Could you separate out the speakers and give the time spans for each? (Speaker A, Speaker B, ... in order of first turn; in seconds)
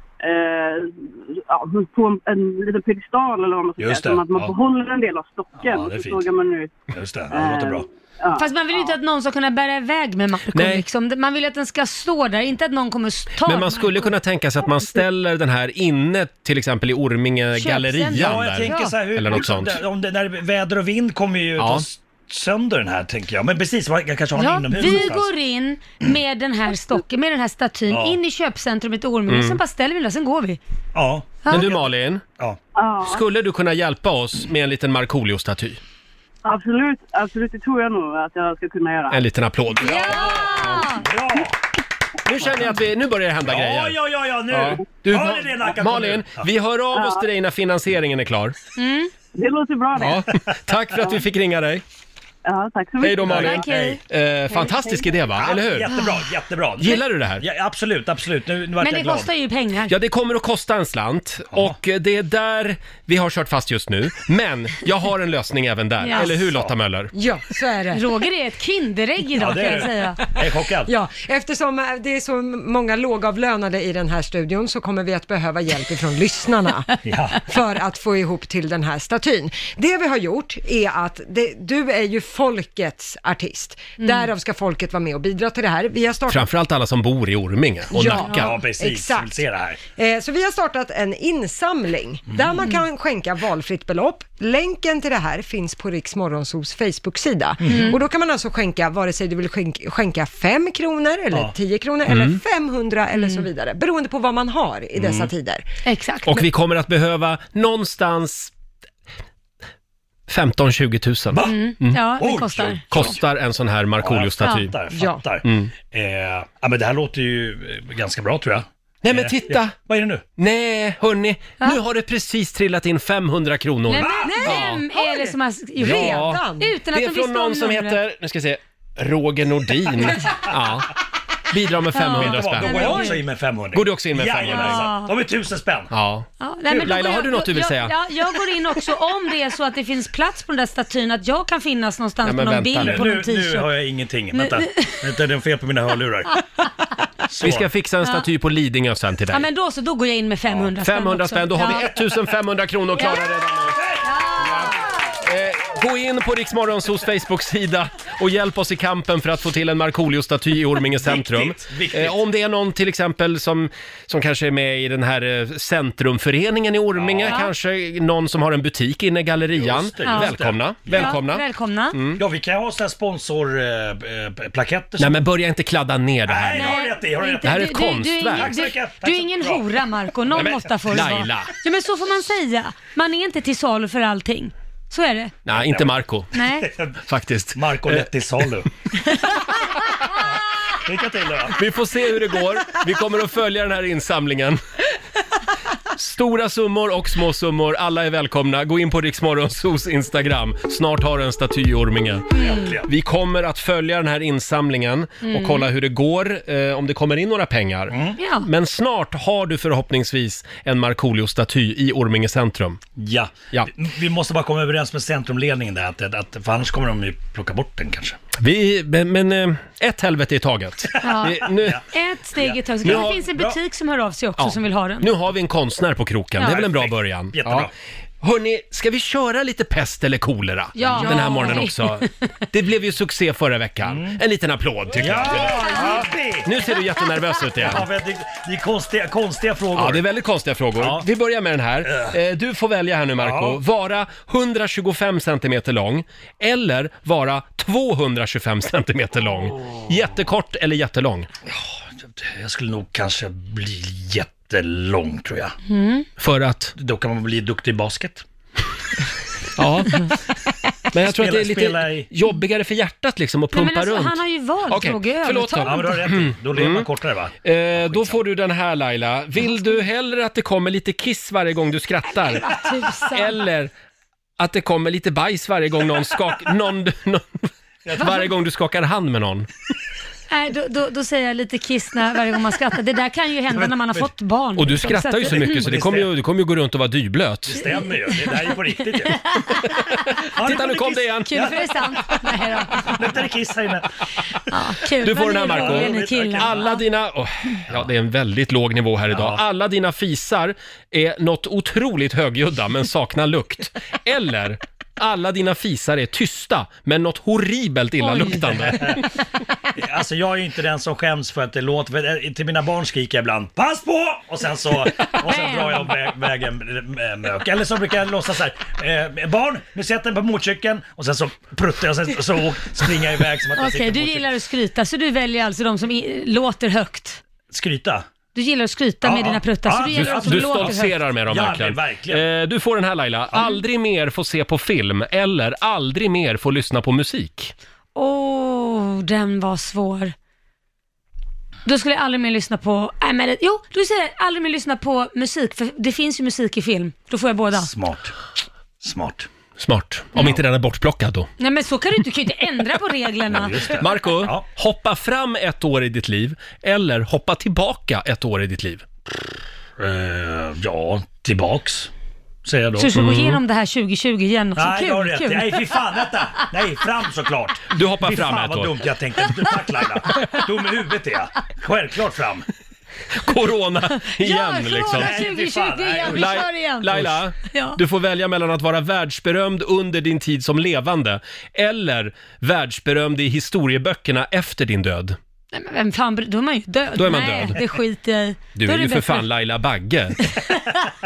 Speaker A: 0.2-6.8, 7.3-8.9, 32.8-33.2, 36.4-39.2, 46.9-47.2, 49.3-50.2, 52.4-53.3, 54.6-55.2
Speaker B: 3.8-4.5, 5.6-6.3, 6.9-7.9, 18.1-25.3, 27.9-28.2, 30.9-32.6, 39.8-41.5, 43.4-46.5, 53.2-54.0, 55.4-59.3, 61.5-61.8, 66.2-66.7, 69.4-70.9, 77.0-77.4, 88.3-89.8, 97.6-97.9, 105.0-105.3, 111.3-113.2, 114.0-120.2, 124.0-124.3, 132.1-135.9, 142.8-146.4, 147.3-147.7, 153.7-154.0, 161.0-162.2, 166.9-167.5, 169.5-171.2, 172.2-175.2, 176.3-177.7, 178.3-179.7, 185.5-185.9, 186.5-187.0, 187.6-188.7, 190.7-191.6, 202.4-202.9, 207.9-208.2, 212.9-218.2, 221.0-223.6, 226.4-227.7, 230.9-231.5, 233.8-234.2, 234.9-236.5, 237.6-240.1, 240.8-241.1, 241.8-242.2, 243.2-243.6, 252.2-255.6, 256.8-258.2, 261.0-262.1, 265.6-268.2, 277.8-278.1, 283.5-284.1, 285.2-286.1, 287.5-289.2, 290.3-293.9, 295.4-296.7, 299.1-299.4, 308.6-308.9, 309.7-324.3, 327.5-328.1, 329.0-332.3, 333.3-333.6, 347.5-348.1, 348.8-349.3, 353.3-354.4, 359.8-361.9, 362.4-362.9, 364.6-372.4, 374.9-376.4
Speaker C: 8.4-14.1, 17.6-19.0, 24.4-30.6, 39.8-41.1, 48.8-49.1, 53.3-54.0, 55.9-56.2, 58.8-59.9, 66.0-66.3, 67.9-70.2, 84.0-84.3, 97.7-98.0, 103.1-103.5, 105.9-106.4, 111.4-113.1, 123.9-128.0, 131.9-133.2, 134.5-135.1, 136.4-143.8, 144.3-145.2, 149.3-151.9, 154.0-154.9, 167.3-167.5, 170.1-170.3, 170.9-172.0, 176.6-185.3, 186.3-186.7, 202.4-202.7, 205.3-205.7, 208.2-208.5, 221.0-225.1, 230.8-232.3, 235.4-236.1, 255.7-256.1, 263.5-266.0, 272.1-273.4, 280.3-285.6, 287.6-288.6, 289.2-289.7, 291.3-293.2, 294.5-296.8, 308.0-308.9, 315.1-316.1, 323.6-327.2, 328.3-331.0, 337.9-340.1, 341.6-347.7, 351.4-353.7, 362.8-366.4, 374.1-377.8, 385.5-389.3, 390.3-390.8
Speaker D: 10.5-10.8, 13.4-19.8, 21.6-21.9, 29.3-29.6, 31.5-32.2, 33.0-35.8, 39.1-40.9, 42.2-48.6, 50.0-51.8, 53.0-55.9, 56.8-57.4, 59.9-67.1, 86.3-88.5, 102.1-102.4, 106.3-108.5, 110.3-112.0, 112.9-114.7, 115.4-115.7, 119.0-119.8, 120.4-124.8, 125.8-130.9, 131.5-133.1, 133.7-134.9, 135.9-137.9, 142.2-143.1, 147.4-149.4, 150.8-153.8, 154.4-172.2, 175.0-176.9, 177.4-178.6, 180.4-181.5, 185.4-186.3, 187.1-188.1, 191.6-194.6, 195.9-212.8, 218.4-221.8, 222.8-223.2, 224.4-227.7, 228.2-237.8, 239.8-251.3, 256.2-256.7, 259.6-260.1, 260.9-266.9, 267.4-272.6, 273.1-273.7, 274.4-279.5, 284.6-287.7, 289.7-291.5, 295.0-309.0, 329.9-337.5, 349.6-351.3, 353.8-358.9, 362.9-363.4, 367.7-368.7, 373.1-375.3, 376.0-385.2, 386.9-387.6, 388.6-390.3
Speaker E: 67.1-68.0, 70.8-86.5, 87.9-89.4, 90.0-105.7, 114.9-115.2, 124.3-126.7